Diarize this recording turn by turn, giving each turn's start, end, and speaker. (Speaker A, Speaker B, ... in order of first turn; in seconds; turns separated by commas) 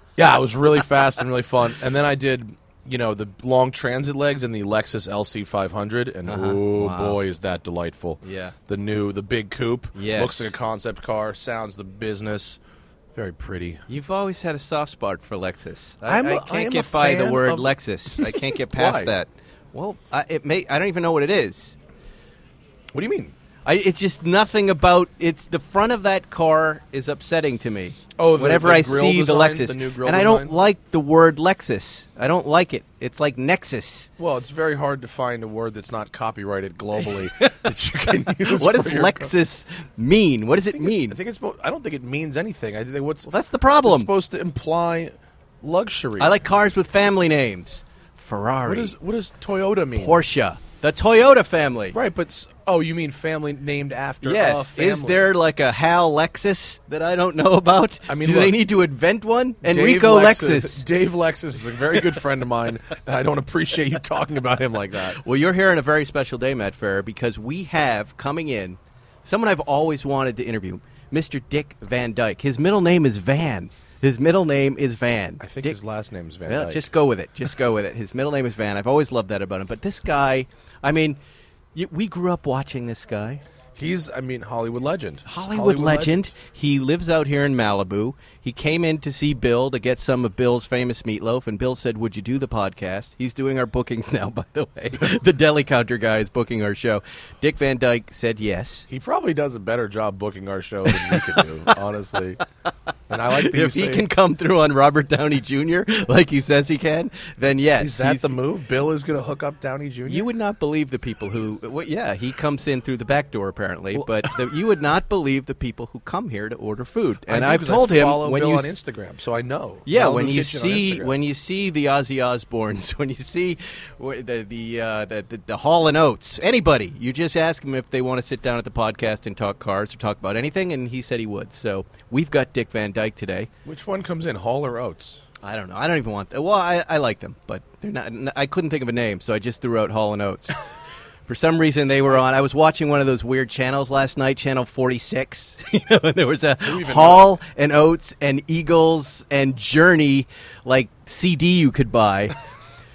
Speaker A: 0.2-12.6, Speaker B: 6.3-7.2, Speaker B: 8.2-8.5, Speaker B: 9.9-10.5, Speaker A: 13.1-13.8, Speaker B: 13.9-21.8, Speaker A: 16.1-19.1, Speaker A: 22.9-23.3, Speaker B: 23.6-34.1, Speaker A: 28.1-30.5, Speaker A: 34.2-39.3, Speaker B: 37.4-37.7, Speaker B: 38.5-41.2, Speaker A: 40.7-43.3, Speaker B: 43.3-44.1, Speaker A: 43.8-46.4, Speaker B: 46.2-48.9, Speaker A: 48.6-50.2, Speaker B: 49.9-52.0, Speaker A: 51.9-55.3, Speaker B: 54.2-60.9, Speaker A: 58.1-58.6, Speaker A: 59.6-65.2, Speaker B: 65.1-75.8, Speaker A: 75.4-76.9, Speaker B: 76.5-81.2, Speaker B: 81.7-83.4, Speaker A: 83.8-86.3, Speaker B: 85.2-98.8, Speaker A: 98.9-102.4, Speaker B: 100.9-101.7, Speaker A: 103.1-104.1, Speaker B: 103.3-108.4, Speaker A: 107.8-110.3, Speaker B: 110.1-118.8, Speaker A: 113.9-114.4, Speaker A: 117.3-121.1, Speaker B: 119.8-133.5, Speaker A: 133.6-135.2, Speaker B: 135.4-140.6, Speaker B: 141.3-152.3, Speaker A: 146.6-147.3